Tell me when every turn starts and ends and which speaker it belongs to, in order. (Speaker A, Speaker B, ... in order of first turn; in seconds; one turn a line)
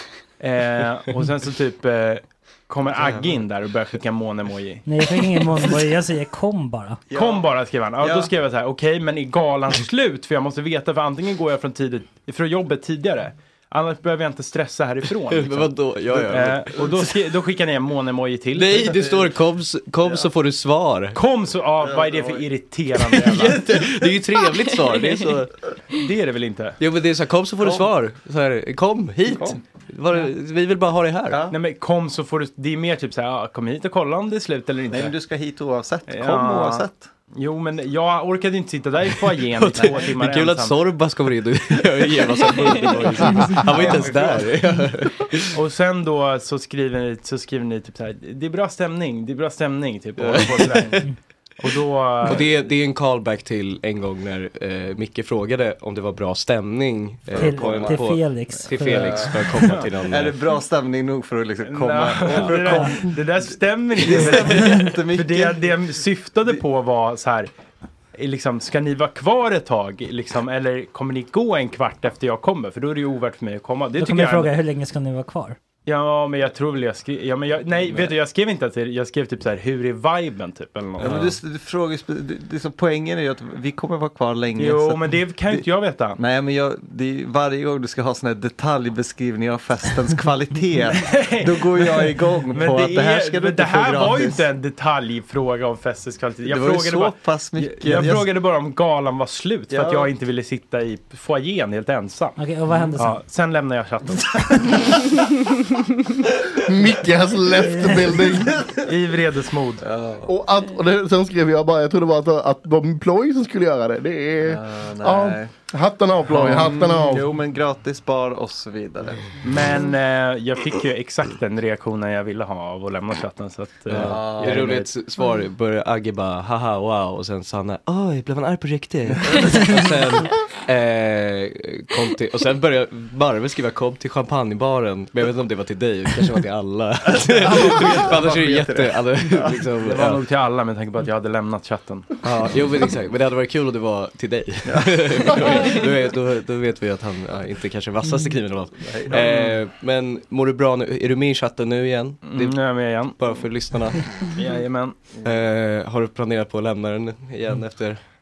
Speaker A: 0.4-4.9
Speaker B: 4.8-7.0
Speaker C: 7.1-8.3
Speaker A: 7.1-19.0
Speaker D: 15.3-17.2
Speaker D: 18.5-21.2
Speaker C: 18.8-19.4
Speaker A: 21.1-23.7
Speaker C: 21.8-22.5
Speaker D: 23.1-25.5
Speaker C: 23.4-23.9
Speaker A: 25.9-26.8
Speaker D: 26.8-31.4
Speaker C: 27.6-27.9
Speaker C: 29.3-29.6
Speaker C: 31.3-31.6
Speaker A: 31.5-35.1
Speaker C: 34.9-37.1
Speaker A: 36.1-40.8
Speaker D: 39.5-45.6
Speaker C: 39.7-40.1
Speaker A: 43.1-44.4
Speaker C: 43.5-44.5
Speaker A: 45.5-52.5
Speaker D: 50.2-51.0
Speaker D: 52.2-60.4
Speaker C: 57.3-58.0
Speaker B: 57.3-59.3
Speaker C: 58.9-59.5
Speaker A: 59.6-59.9
Speaker C: 60.0-65.8
Speaker A: 61.6-67.5
Speaker D: 62.3-62.8
Speaker A: 68.1-74.5
Speaker B: 74.0-75.6
Speaker A: 75.8-81.4
Speaker D: 81.0-81.3
Speaker C: 81.0-85.6
Speaker A: 84.6-86.2
Speaker C: 86.2-94.4
Speaker A: 91.0-102.4
Speaker C: 96.4-98.3
Speaker C: 99.7-100.1
Speaker B: 102.4-103.2
Speaker A: 102.9-104.9
Speaker E: 106.6-108.6
Speaker B: 107.7-108.1
Speaker C: 108.5-108.9
Speaker A: 108.8-109.8
Speaker C: 109.8-110.3
Speaker E: 110.2-117.4
Speaker C: 114.4-115.5
Speaker C: 116.3-119.2
Speaker A: 119.4-124.9
Speaker D: 123.9-140.2
Speaker C: 123.9-124.8
Speaker C: 137.1-140.2
Speaker A: 139.8-142.1
Speaker D: 142.2-154.1
Speaker C: 144.6-145.8
Speaker C: 148.8-149.4
Speaker A: 149.1-149.5
Speaker A: 152.2-153.2
Speaker A: 154.2-155.0
Speaker D: 155.2-158.0